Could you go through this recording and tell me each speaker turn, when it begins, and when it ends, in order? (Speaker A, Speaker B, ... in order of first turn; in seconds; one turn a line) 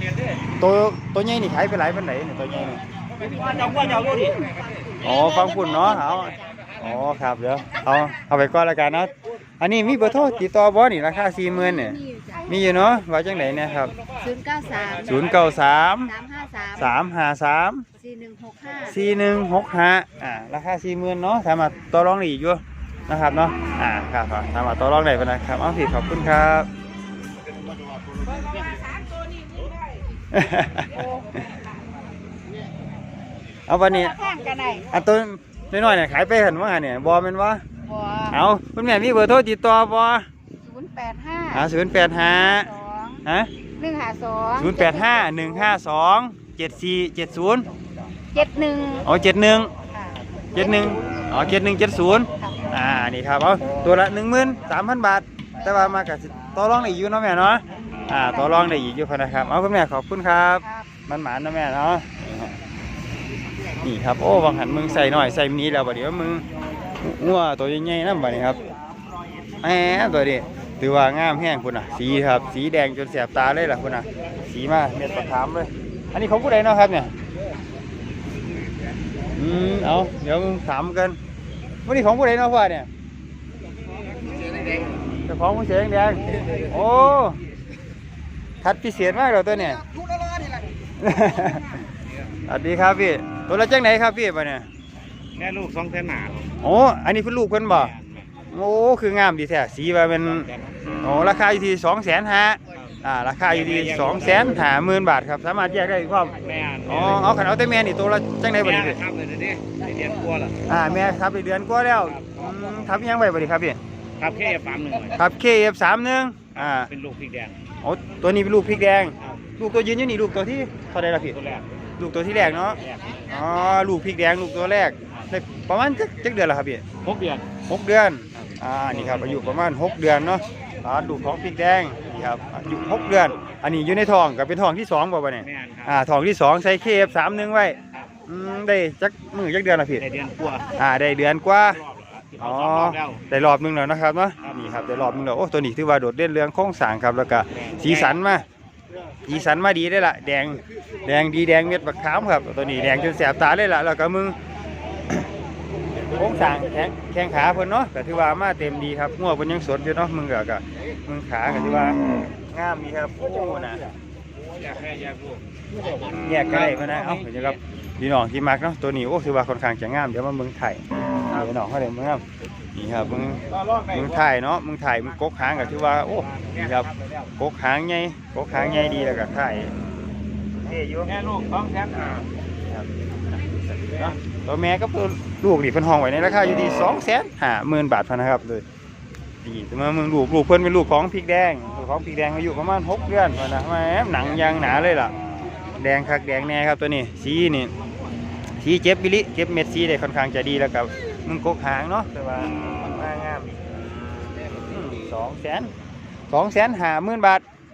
Speaker A: 0.6-2.8
Speaker B: 3.2-4.4
Speaker C: 3.2-6.6
Speaker A: 5.0-13.9
Speaker C: 11.5-12.6
Speaker C: 14.2-15.2
Speaker A: 15.0-16.1
Speaker C: 15.9-17.0
Speaker A: 16.7-17.9
Speaker C: 18.0-19.0
Speaker A: 18.8-26.7
Speaker A: 30.3-31.4
Speaker A: 33.7-34.2
Speaker C: 33.9-34.9
Speaker A: 34.9-37.6
Speaker C: 37.9-38.4
Speaker A: 38.3-40.2
Speaker C: 40.6-41.7
Speaker A: 41.5-42.7
Speaker C: 42.3-43.2
Speaker A: 43.2-43.5
Speaker C: 43.8-45.2
Speaker A: 44.5-47.7
Speaker C: 48.3-49.1
Speaker A: 49.0-49.7
Speaker C: 49.9-50.6
Speaker A: 50.5-62.6
Speaker C: 55.6-55.9
Speaker A: 63.8-66.4
Speaker A: 67.0-68.6
Speaker A: 69.6-77.1
Speaker A: 79.3-81.2
Speaker A: 81.8-82.9
Speaker A: 85.2-87.4
Speaker A: 88.6-89.8
Speaker A: 91.0-91.8
Speaker A: 92.5-94.7
Speaker B: 95.3-96.5
Speaker A: 96.6-97.9
Speaker B: 97.7-98.3
Speaker A: 98.5-100.5
Speaker B: 100.2-100.8
Speaker A: 101.0-109.0
Speaker B: 103.4-104.6
Speaker B: 106.4-107.3
Speaker B: 108.6-110.6
Speaker A: 110.6-113.8
Speaker B: 112.0-112.4
Speaker B: 114.2-115.2
Speaker A: 115.1-116.9
Speaker B: 116.5-117.6
Speaker A: 117.8-121.4
Speaker B: 121.2-121.7
Speaker A: 122.0-126.8
Speaker B: 122.6-123.2
Speaker B: 127.0-127.5
Speaker A: 127.6-140.0
Speaker B: 128.8-129.6
Speaker B: 135.4-136.0
Speaker B: 140.0-140.7
Speaker A: 140.7-141.8
Speaker B: 141.7-143.2
Speaker A: 142.4-148.4
Speaker B: 147.5-148.2
Speaker A: 149.2-154.4
Speaker A: 156.1-163.9
Speaker B: 164.6-167.6
Speaker A: 166.2-172.2
Speaker A: 172.8-179.8
Speaker B: 173.5-174.0
Speaker B: 176.2-177.2
Speaker A: 180.6-181.1
Speaker B: 181.0-182.3
Speaker A: 182.7-188.6
Speaker A: 189.4-195.1
Speaker A: 195.8-197.7
Speaker A: 198.6-203.7
Speaker A: 204.5-205.7
Speaker A: 206.3-207.4